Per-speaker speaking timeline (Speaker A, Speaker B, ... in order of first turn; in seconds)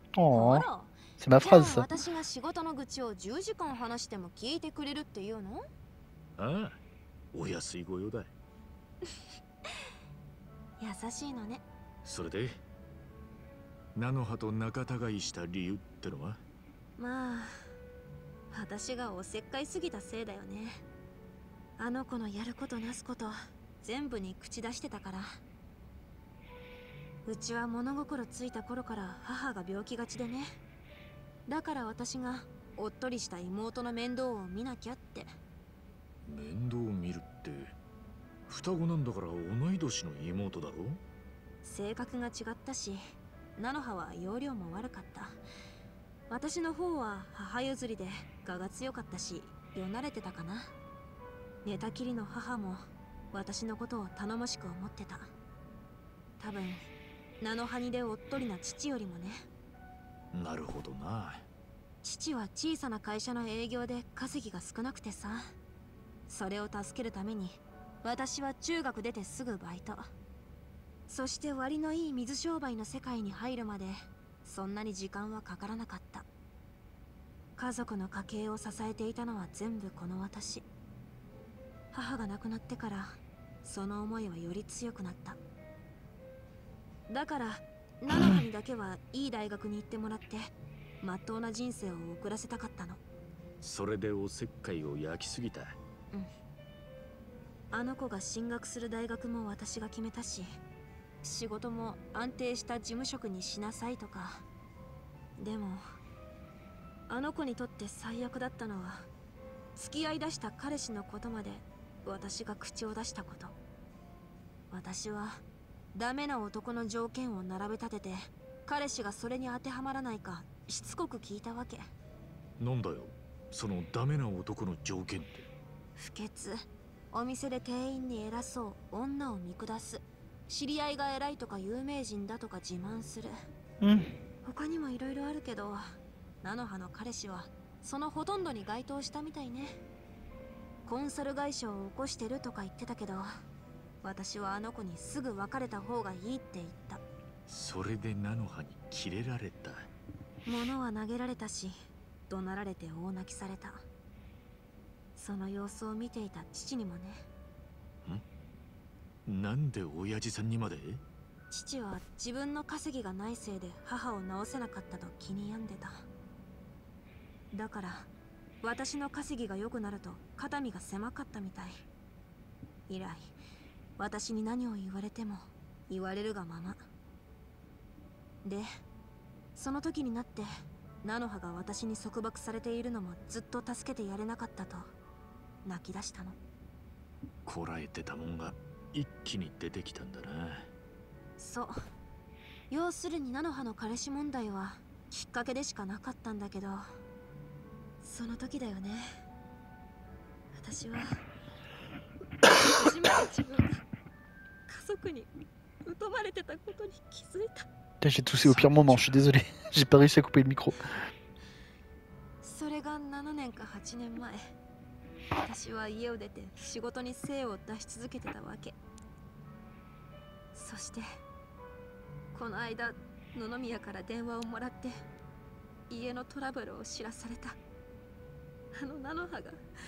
Speaker A: 0.1-0.7, 1.2-1.9, 133.8-134.1, 208.0-210.8
Speaker B: 0.3-5.7, 10.8-11.6, 17.0-17.5, 18.5-20.8, 21.8-25.4, 27.3-30.6, 31.5-35.3, 41.6-43.0, 43.6-45.4, 46.3-50.7, 51.6-52.8, 53.3-55.3, 56.4-56.8, 57.4-59.5, 62.0-65.5, 66.3-70.1, 71.1-76.3, 77.6-80.7, 81.9-85.4, 87.1-90.5, 91.0-93.0, 97.7-100.5, 101.2-104.4, 105.4-105.8, 107.1-109.1, 109.8-113.5, 114.7-115.4, 115.9-121.9, 126.0-133.3, 134.4-135.8, 136.4-139.8, 140.8-143.3, 144.0-147.0, 150.5-151.8, 152.3-153.8, 155.2-157.2, 161.5-166.1, 167.5-168.1, 168.6-171.8, 172.9-173.3, 174.0-176.8, 179.6-180.5, 181.0-184.9, 185.7-186.4, 191.4-191.8, 192.7-196.8, 198.0-199.2, 200.5-201.2, 202.5-203.8, 204.7-205.3, 205.8-207.7, 212.4-214.4, 215.4-218.8, 220.5-221.1, 222.3-224.9, 225.9-227.6, 228.8-229.6
Speaker C: 6.4-6.8, 7.3-8.3, 12.1-12.6, 13.9-16.4, 36.3-37.8, 38.5-41.0, 60.3-61.4, 93.6-95.8, 122.6-125.5, 147.5-149.9, 159.3-161.0, 187.4-190.7